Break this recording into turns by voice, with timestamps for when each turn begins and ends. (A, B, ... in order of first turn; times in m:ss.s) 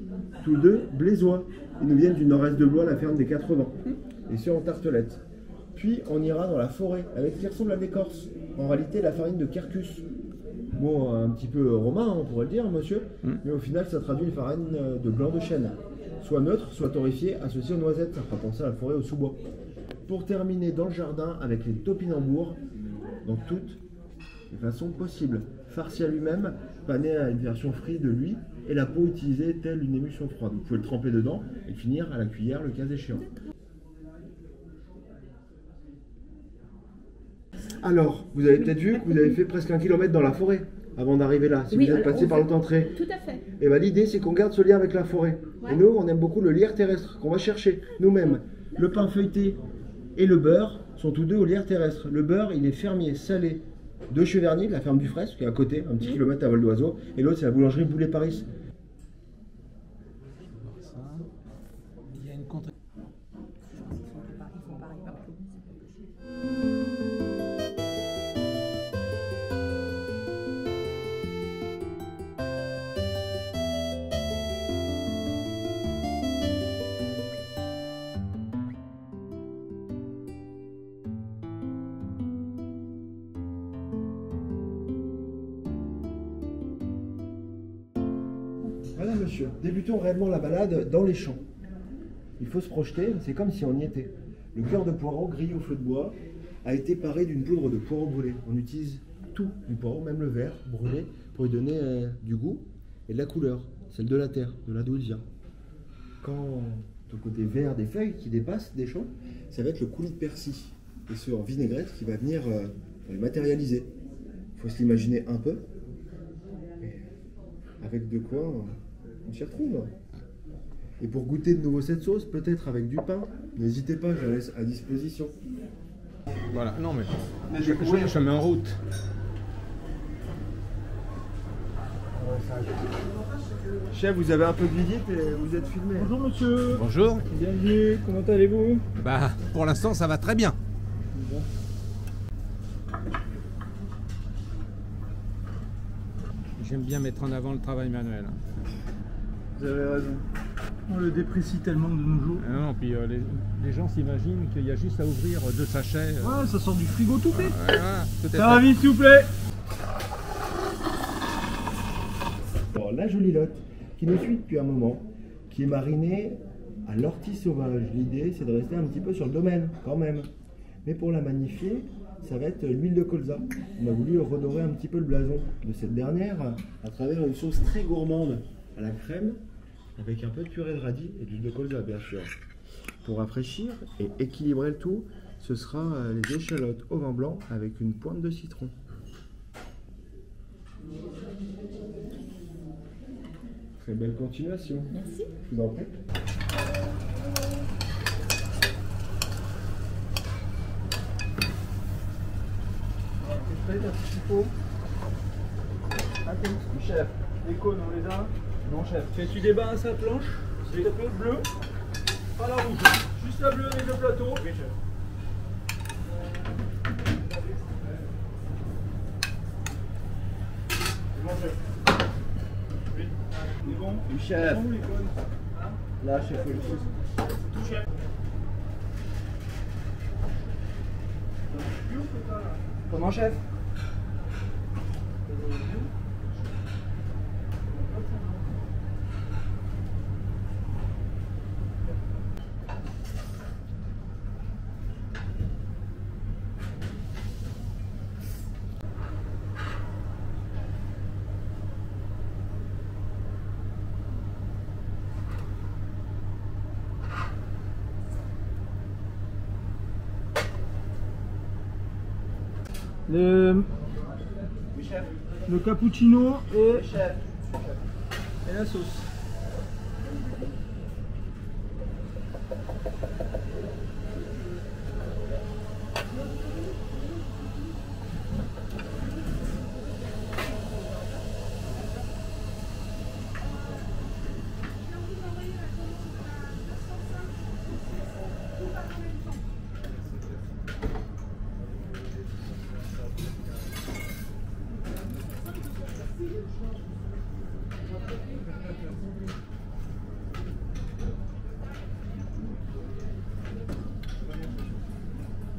0:00.4-0:10.0 A
0:10.7-0:19.4 A
0:20.0-0:22.6 A
0:23.2-0:23.8 A
0:24.5-0:33.3 A
0:37.8-0:43.0 A
0:41.7-0:43.4 B
0:43.6-0:49.6 A
0:50.1-0:58.5 A
1:00.5-1:01.3 C
1:02.2-1:02.7 C
1:03.7-1:06.1 B
1:28.9-1:31.4 A
1:32.4-1:45.2 A
1:46.2-1:53.9 A
1:54.5-1:55.6 A
1:57.8-1:58.7 A
1:59.2-1:59.9 A
2:01.0-2:05.3 A
2:06.5-2:08.8 C
2:07.4-2:08.2 A
2:12.1-2:12.8 A
2:13.9-2:16.1 A
2:15.9-2:18.8 D
2:16.7-2:17.2 C
2:19.0-2:20.6 C
2:21.2-2:21.4 D
2:26.6-2:28.4 C
2:29.6-2:30.2 D
2:30.9-2:32.4 D
2:32.4-2:36.4 C
2:36.2-2:39.3 D
2:37.3-2:38.6 C
2:42.7-2:50.3 A
2:50.8-2:59.4 A
3:00.0-3:02.3 A
3:03.0-3:08.7 A
3:13.8-3:15.9 A
3:14.9-3:15.3 B
3:23.2-3:24.5 D
3:26.2-3:31.5 D
3:32.4-3:34.7 D
3:41.2-3:41.5 D
3:42.9-3:46.8 D
3:44.0-3:44.6 A
3:46.0-3:46.8 A
3:47.4-3:47.8 D
3:51.5-3:53.4 D
3:55.3-3:55.8 D
4:23.1-4:23.7 D
4:24.7-4:27.2 D
4:28.4-4:29.1 D
4:45.3-4:45.7 B